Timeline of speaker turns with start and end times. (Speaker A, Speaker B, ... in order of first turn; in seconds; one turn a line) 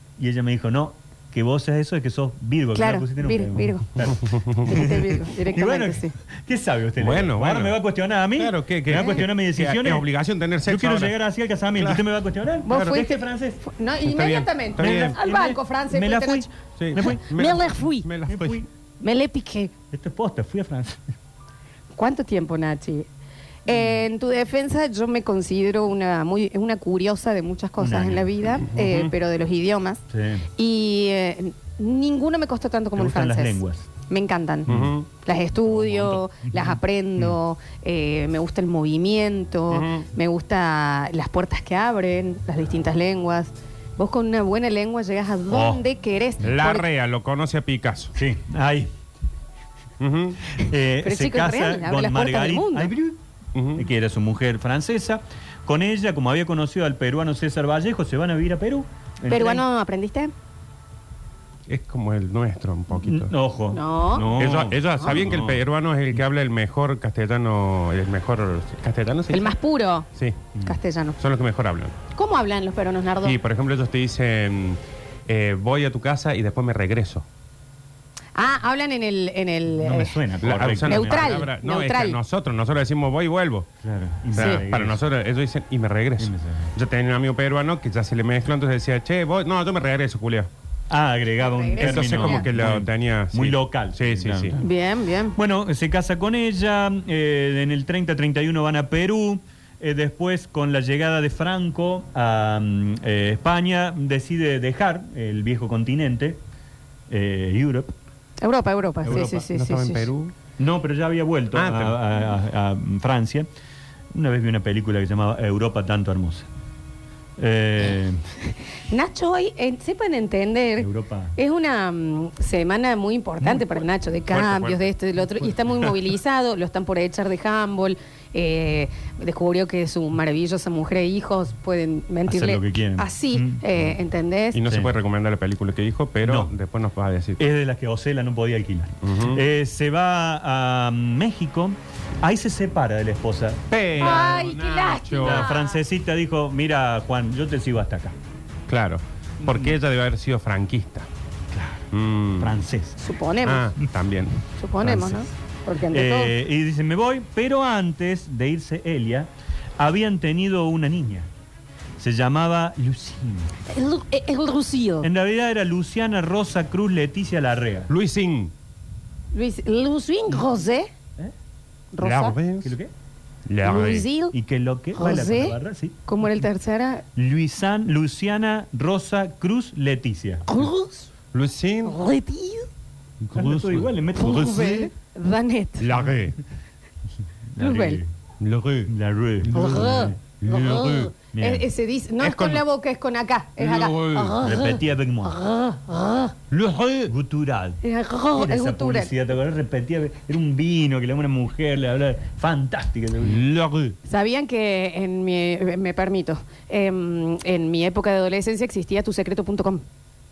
Speaker A: 0.2-10.1
Speaker B: 2.8-3.9
Speaker C: 4.2-4.8
Speaker B: 4.6-6.1
Speaker C: 7.0-7.8
Speaker C: 8.3-11.1
Speaker B: 8.9-9.2
Speaker A: 10.7-13.6
Speaker C: 11.8-12.0
Speaker B: 12.6-18.1
Speaker C: 14.0-15.2
Speaker A: 14.8-17.2
Speaker C: 16.8-18.6
Speaker A: 18.3-18.7
Speaker B: 19.0-19.7
Speaker A: 19.9-21.0
Speaker B: 21.9-23.1
Speaker B: 23.7-30.0
Speaker A: 27.8-28.3
Speaker C: 28.7-29.1
Speaker A: 30.1-30.4
Speaker B: 30.6-34.7
Speaker A: 33.0-33.9
Speaker C: 34.7-35.1
Speaker A: 34.7-35.0
Speaker B: 35.2-46.9
Speaker A: 35.7-37.4
Speaker C: 39.7-40.1
Speaker A: 45.5-45.8
Speaker C: 46.4-48.1
Speaker A: 48.1-48.9
Speaker C: 50.0-50.4
Speaker A: 50.5-53.2
Speaker B: 51.0-52.9
Speaker C: 53.5-53.9
Speaker A: 53.8-59.6
Speaker B: 59.3-60.3
Speaker C: 61.7-63.3
Speaker A: 62.9-65.6
Speaker B: 63.7-64.3
Speaker C: 64.3-69.6
Speaker B: 69.3-70.1
Speaker B: 70.6-71.2
Speaker C: 71.2-72.0
Speaker B: 72.1-73.4
Speaker C: 73.2-77.2
Speaker B: 78.3-80.2
Speaker A: 79.8-81.5
Speaker C: 80.4-83.7
Speaker B: 80.8-82.2
Speaker A: 83.8-85.0
Speaker C: 84.3-90.5
Speaker A: 86.2-86.7
Speaker A: 90.9-94.7
Speaker B: 91.4-92.5
Speaker C: 91.8-94.6
Speaker B: 94.6-95.4
Speaker A: 95.4-106.4
Speaker A: 107.1-107.9
Speaker B: 108.4-110.1
Speaker A: 109.0-109.5
Speaker C: 109.1-110.3
Speaker A: 110.6-113.5
Speaker C: 111.5-112.0
Speaker A: 114.1-116.5
Speaker A: 117.4-118.2
Speaker B: 118.9-134.6
Speaker A: 120.8-121.3
Speaker C: 124.3-125.5
Speaker A: 132.3-133.8
Speaker C: 134.5-137.4
Speaker A: 134.7-134.9
Speaker A: 136.2-136.5
Speaker A: 137.4-144.3
Speaker C: 139.0-139.4
Speaker C: 143.7-145.5
Speaker B: 144.0-145.8
Speaker A: 145.2-148.1
Speaker C: 148.7-151.1
Speaker A: 149.4-149.8
Speaker A: 151.5-153.0
Speaker C: 151.9-152.6
Speaker B: 153.0-153.7
Speaker C: 153.4-155.2
Speaker B: 154.6-156.3
Speaker A: 155.9-161.3
Speaker A: 162.0-163.5
Speaker B: 163.7-165.1
Speaker A: 165.0-167.9
Speaker C: 167.9-168.5
Speaker B: 169.3-170.9
Speaker B: 171.9-172.4
Speaker C: 172.0-172.8
Speaker A: 172.6-172.9
Speaker C: 173.5-174.1
Speaker B: 173.6-174.3
Speaker A: 174.3-176.0
Speaker B: 174.9-177.0
Speaker A: 177.2-180.5
Speaker B: 180.5-181.1
Speaker C: 181.3-182.0
Speaker B: 181.8-182.7
Speaker C: 183.2-184.9
Speaker A: 183.3-184.6
Speaker B: 184.2-186.0
Speaker C: 185.8-186.4
Speaker A: 187.5-188.1
Speaker B: 187.6-188.0
Speaker C: 188.4-188.9
Speaker A: 188.9-190.2
Speaker C: 189.5-191.1
Speaker B: 189.5-196.3
Speaker A: 191.3-191.7
Speaker C: 192.2-192.6
Speaker C: 193.6-194.5
Speaker A: 194.4-195.4
Speaker C: 196.5-197.1
Speaker A: 197.1-197.8
Speaker B: 197.8-199.1
Speaker A: 198.3-203.4
Speaker C: 203.2-204.0
Speaker B: 204.0-209.8